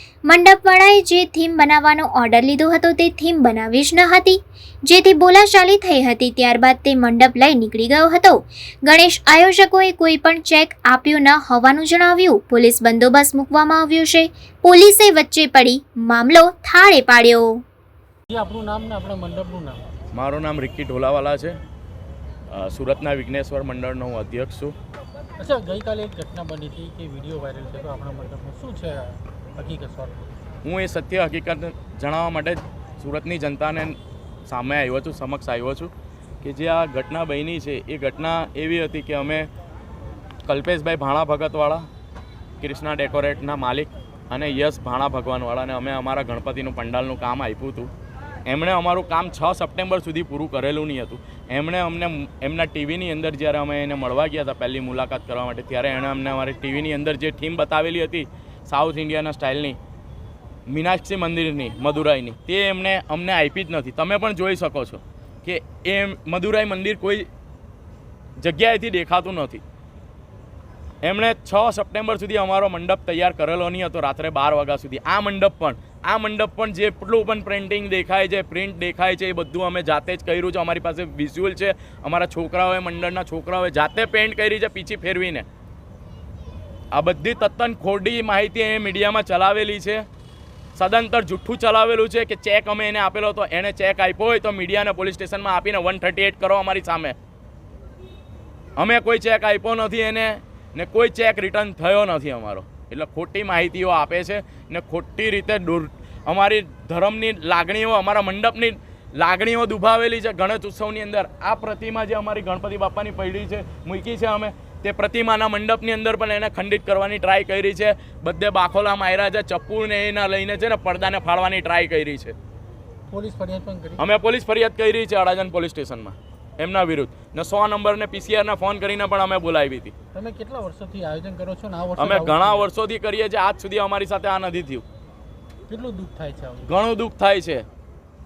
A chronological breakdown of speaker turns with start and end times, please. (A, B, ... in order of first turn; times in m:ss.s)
0:00.3-0:17.6 A
0:18.3-0:19.8 B
0:20.1-0:21.6 C
0:22.5-0:24.7 C
0:25.4-0:30.3 B
0:30.6-0:39.5 C
0:40.4-0:41.8 C
0:42.6-0:47.9 C
0:48.4-0:59.8 C
1:00.7-1:07.3 C
1:08.4-1:09.6 C
1:11.0-1:25.4 C
1:26.9-1:30.0 C
1:30.8-1:37.2 C
1:38.8-2:02.4 C
2:03.1-2:04.0 B
2:04.0-2:09.9 C
2:10.1-2:12.7 B
2:12.0-2:14.8 C
2:15.7-2:16.7 B
2:16.6-2:17.6 C